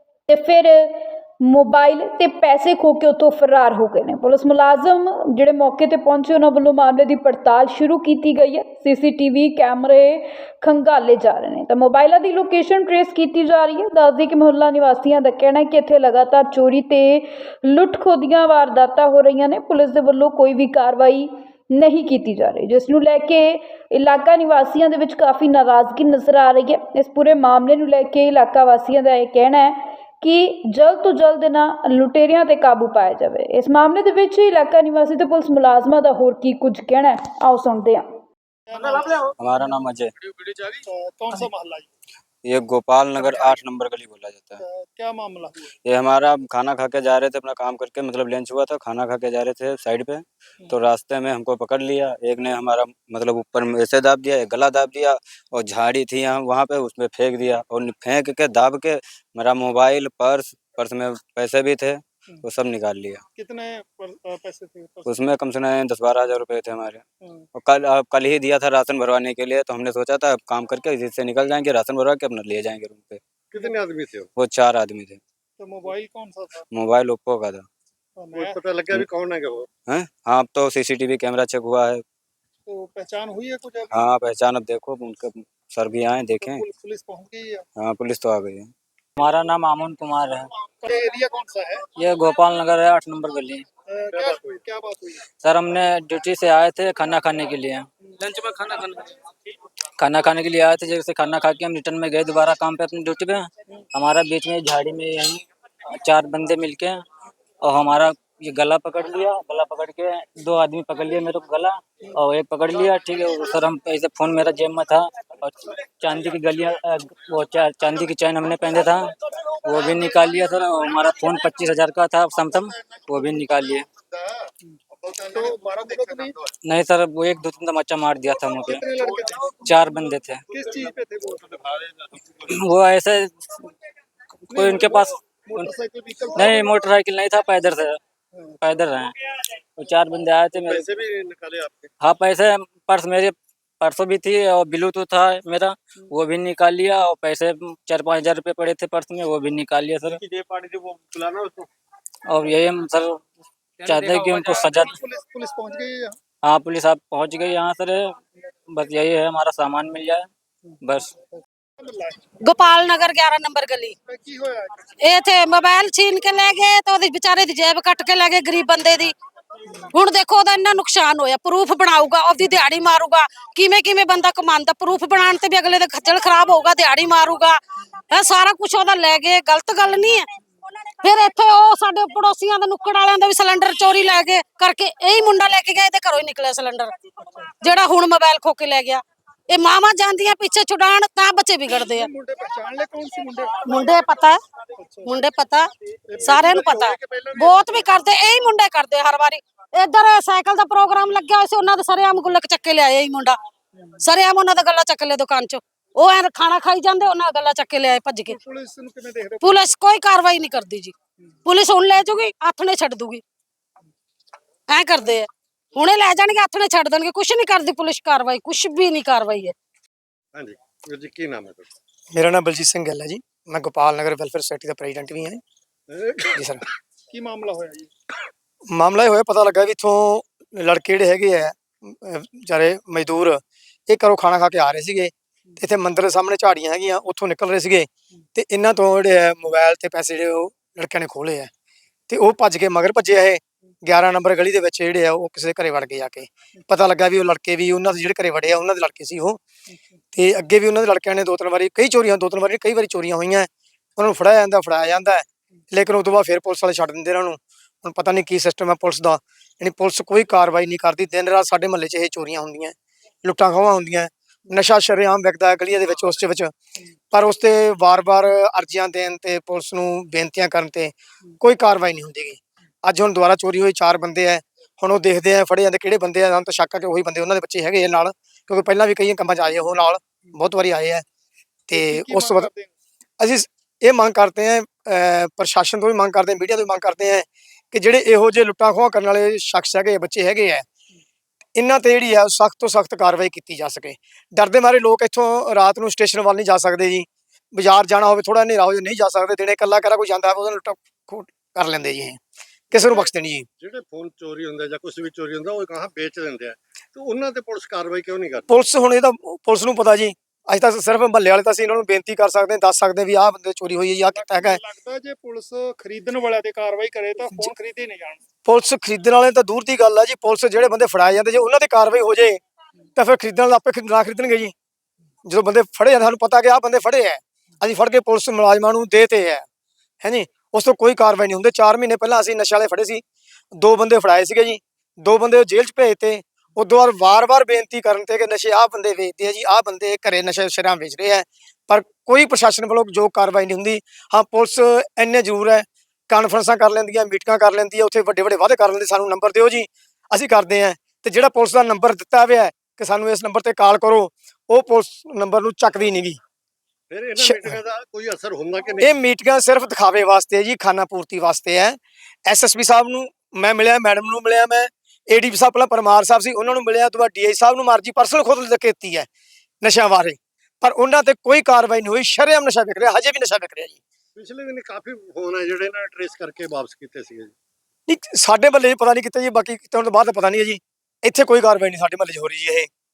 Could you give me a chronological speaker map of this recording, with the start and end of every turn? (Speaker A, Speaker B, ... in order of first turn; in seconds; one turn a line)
Speaker A: 0.3-38.2
Speaker B: 38.7-39.3
Speaker C: 39.4-40.1
Speaker B: 40.7-41.9
Speaker C: 42.5-44.6
Speaker B: 43.2-43.6
Speaker B: 44.6-45.6
Speaker C: 45.8-63.2
Speaker B: 63.4-65.1
Speaker C: 65.1-67.0
Speaker C: 67.5-73.2
Speaker D: 73.5-74.3
Speaker C: 74.4-75.2
Speaker B: 75.6-76.6
Speaker C: 76.7-77.7
Speaker B: 78.2-78.6
Speaker D: 78.3-79.7
Speaker C: 79.9-82.0
Speaker B: 82.7-83.9
Speaker C: 83.9-86.7
Speaker B: 86.4-87.6
Speaker C: 87.8-88.7
Speaker E: 89.2-90.5
Speaker B: 90.8-91.8
Speaker E: 92.0-93.7
Speaker B: 93.9-95.2
Speaker D: 94.1-94.6
Speaker E: 95.4-97.9
Speaker E: 98.4-98.9
Speaker E: 100.0-105.4
Speaker E: 106.0-107.0
Speaker E: 107.6-119.1
Speaker E: 119.6-123.9
Speaker B: 125.1-126.4
Speaker D: 125.1-126.3
Speaker E: 126.6-128.9
Speaker B: 128.7-131.4
Speaker E: 129.5-130.4
Speaker D: 130.6-131.9
Speaker E: 132.4-133.7
Speaker E: 134.5-135.8
Speaker B: 134.5-136.9
Speaker E: 136.3-138.0
Speaker E: 138.6-140.9
Speaker D: 140.5-141.9
Speaker E: 142.0-150.2
Speaker D: 150.1-151.7
Speaker E: 152.3-153.2
Speaker E: 153.8-155.0
Speaker B: 154.3-156.2
Speaker E: 156.4-158.2
Speaker E: 158.7-160.3
Speaker E: 160.8-161.2
Speaker B: 161.4-162.3
Speaker F: 162.4-163.9
Speaker B: 164.1-164.8
Speaker F: 165.0-169.1
Speaker F: 169.9-180.2
Speaker F: 181.0-187.0
Speaker F: 187.6-192.1
Speaker B: 191.7-193.9
Speaker F: 193.7-194.4
Speaker B: 194.8-195.2
Speaker F: 195.0-203.4
Speaker B: 196.1-197.9
Speaker F: 204.0-208.4
Speaker B: 208.3-209.6
Speaker F: 209.4-210.9
Speaker F: 211.4-213.2
Speaker F: 214.7-219.5
Speaker D: 220.3-221.7
Speaker G: 222.1-225.4
Speaker D: 225.9-226.4
Speaker G: 226.3-226.6
Speaker B: 227.1-227.9
Speaker G: 228.7-241.5
Speaker G: 242.1-249.4
Speaker G: 250.1-266.5
Speaker G: 267.1-281.0
Speaker G: 281.7-282.5
Speaker B: 281.7-282.7
Speaker G: 283.2-290.6
Speaker G: 291.6-302.2
Speaker G: 302.7-303.4
Speaker D: 302.8-303.1
Speaker D: 303.6-308.6
Speaker G: 308.5-314.6
Speaker B: 314.1-318.2
Speaker G: 318.4-322.4
Speaker G: 323.0-324.5
Speaker G: 325.2-329.4
Speaker G: 330.0-356.2
Speaker D: 356.9-358.9
Speaker G: 357.2-357.6
Speaker G: 358.8-369.1
Speaker G: 369.6-373.8
Speaker D: 374.1-377.3
Speaker G: 377.9-382.7